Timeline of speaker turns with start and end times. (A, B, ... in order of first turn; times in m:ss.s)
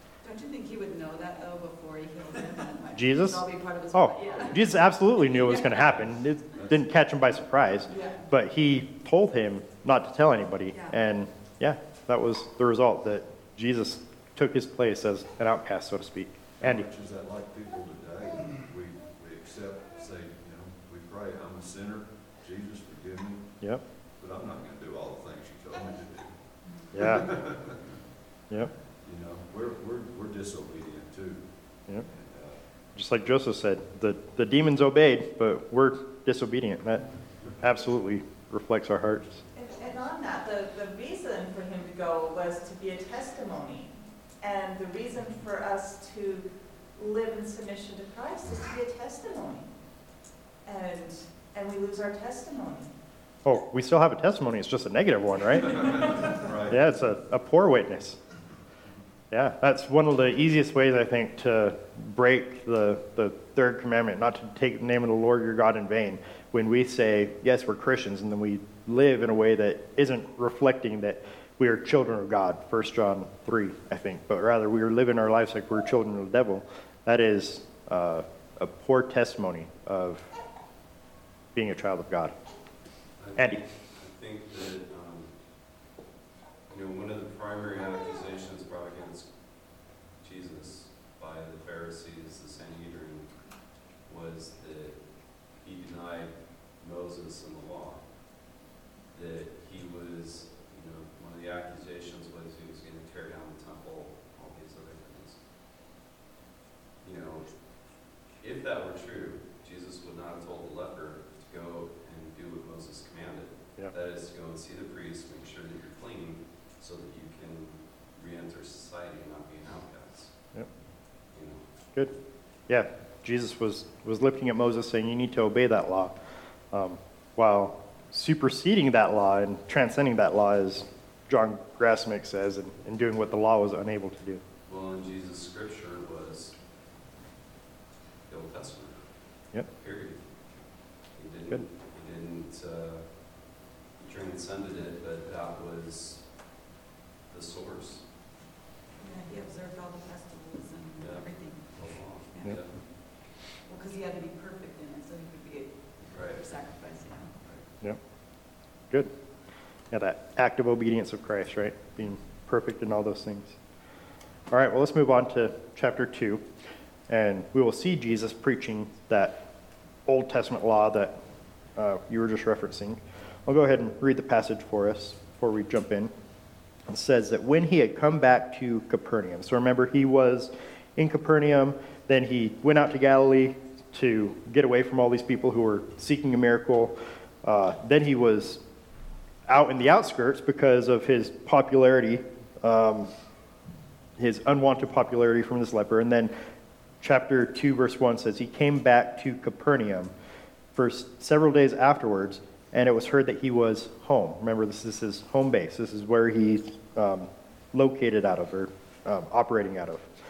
0:00.2-0:06.1 A
0:02.9-0:16.9 B
0:07.8-0:08.3 A
0:10.7-0:11.0 A
0:16.6-0:27.9 C
0:26.9-0:27.3 B
0:29.0-0:32.6 C
0:32.9-0:37.1 B
0:37.6-0:39.4 B
0:39.5-0:49.7 D
0:50.6-0:52.9 D
0:53.4-0:56.0 B
0:55.7-0:57.0 C
0:56.7-0:58.2 B
0:59.3-1:20.3 B
1:21.5-1:22.3 B
1:23.2-1:25.3 E
1:23.4-1:23.6 B
1:26.7-1:29.3 E
1:30.2-1:33.3 E
1:34.0-1:38.1 E
1:39.1-1:45.4 E
1:47.0-1:47.6 E
1:48.4-2:00.4 E
2:01.3-2:01.6 E
2:02.7-2:06.1 B
2:06.7-2:14.4 B
2:14.7-2:16.6 E
2:18.3-2:19.1 E
2:19.6-2:26.4 E
2:27.3-2:28.1 E
2:29.0-2:32.6 A
2:31.0-2:32.8 E
2:33.6-2:37.4 A
2:36.0-2:36.4 E
2:39.9-2:43.6 B
2:44.5-2:46.4 B
2:47.1-2:49.5 B
2:50.0-2:51.2 B
2:51.8-2:56.1 B
2:56.9-3:08.6 B
3:09.5-3:13.1 B
3:14.2-3:16.3 B
3:17.0-3:20.1 B
3:20.7-3:30.0 B